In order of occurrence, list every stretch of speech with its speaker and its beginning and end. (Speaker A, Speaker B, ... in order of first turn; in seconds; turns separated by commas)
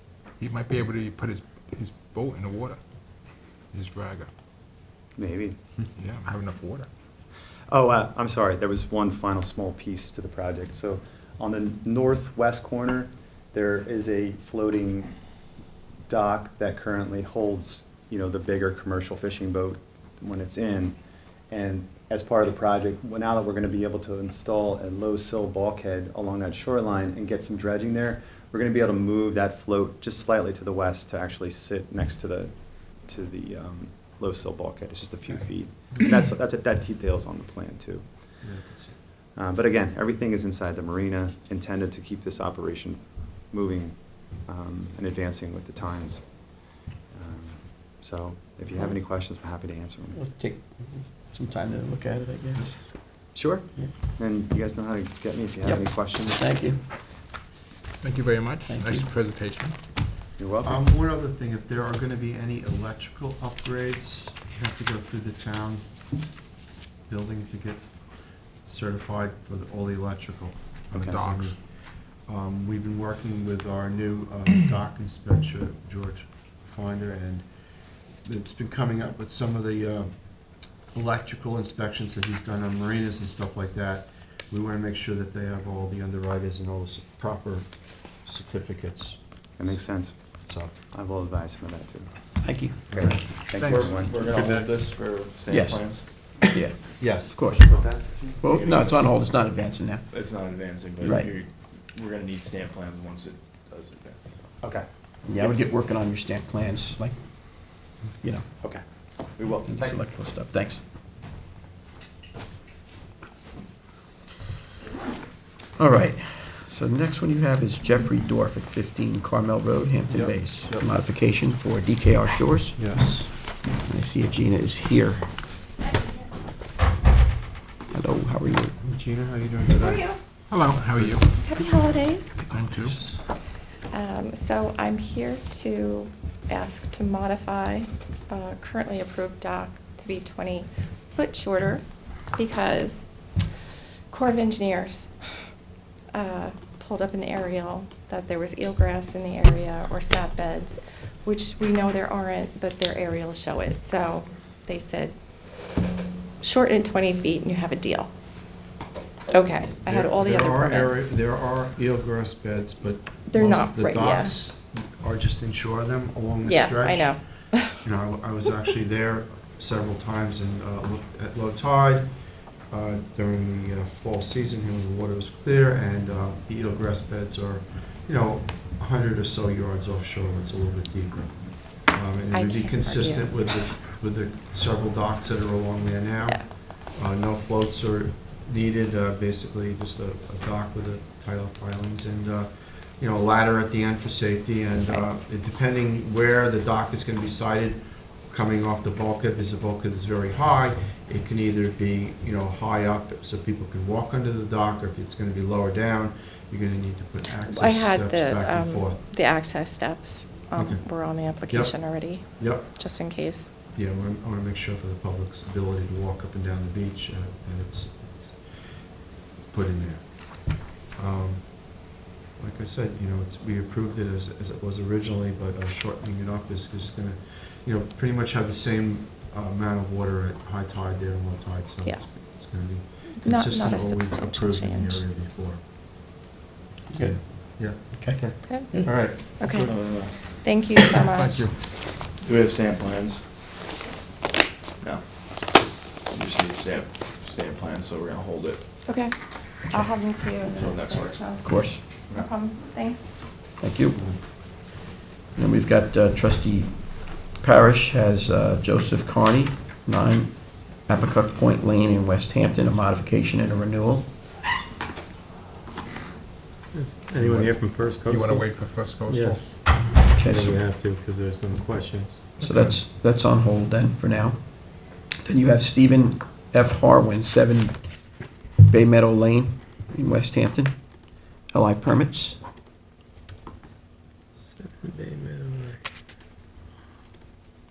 Speaker A: 0.4-2.8, Speaker A: 3.7-4.3, Speaker B: 5.2-5.6, Speaker A: 6.0-6.9, Speaker B: 7.7-15.1, Speaker B: 16.1-21.0, Speaker B: 21.5-38.5, Speaker C: 38.4-39.0, Speaker B: 39.4-50.2, Speaker D: 50.1-53.9, Speaker B: 53.3-56.4, Speaker D: 55.6-56.8, Speaker A: 58.0-59.8, Speaker D: 58.7-59.1, Speaker B: 60.4-60.9, Speaker C: 60.6-66.2, Speaker C: 67.1-77.5, Speaker A: 70.9-71.6, Speaker C: 78.0-90.8, Speaker B: 89.6-94.7, Speaker D: 92.4-93.2, Speaker C: 92.9-93.2, Speaker A: 93.6-93.9, Speaker E: 93.7-96.1, Speaker D: 95.5-100.1, Speaker C: 97.0-97.4, Speaker B: 97.6-98.4, Speaker E: 98.4-99.1, Speaker E: 100.1-104.3, Speaker D: 101.0-101.3, Speaker D: 105.2-108.5, Speaker B: 105.4-105.7, Speaker B: 108.6-110.0, Speaker D: 109.7-110.8, Speaker D: 115.8-123.0, Speaker C: 120.1-120.9, Speaker C: 122.8-123.3, Speaker D: 123.7-125.3, Speaker D: 127.9-128.8, Speaker C: 128.8-130.1, Speaker F: 129.7-130.2, Speaker A: 130.5-131.3, Speaker F: 131.4-132.4, Speaker A: 132.5-133.0, Speaker C: 132.8-133.0, Speaker F: 133.9-143.1, Speaker F: 144.1-145.2, Speaker F: 146.1-155.2, Speaker F: 156.4-158.1, Speaker F: 159.3-161.1, Speaker C: 159.8-172.1, Speaker F: 163.3-164.3, Speaker F: 166.4-167.8, Speaker C: 172.7-209.0, Speaker F: 182.3-183.7, Speaker F: 207.4-213.5, Speaker C: 210.6-213.1, Speaker C: 213.7-235.6, Speaker F: 233.1-235.0, Speaker D: 236.9-239.0, Speaker C: 237.0-239.7, Speaker F: 238.5-241.4, Speaker E: 239.7-240.3, Speaker A: 241.1-241.6, Speaker E: 241.8-243.3, Speaker E: 244.8-248.7, Speaker F: 248.9-253.0, Speaker E: 250.6-251.3, Speaker D: 251.4-251.8, Speaker D: 253.6-254.1, Speaker D: 255.3-264.1, Speaker G: 266.9-268.4, Speaker A: 267.2-269.9, Speaker G: 269.1-269.4, Speaker D: 270.1-270.6, Speaker G: 270.8-272.1, Speaker A: 272.4-272.8, Speaker D: 272.4-277.8, Speaker D: 278.6-280.8, Speaker D: 281.5-282.4, Speaker G: 284.9-285.7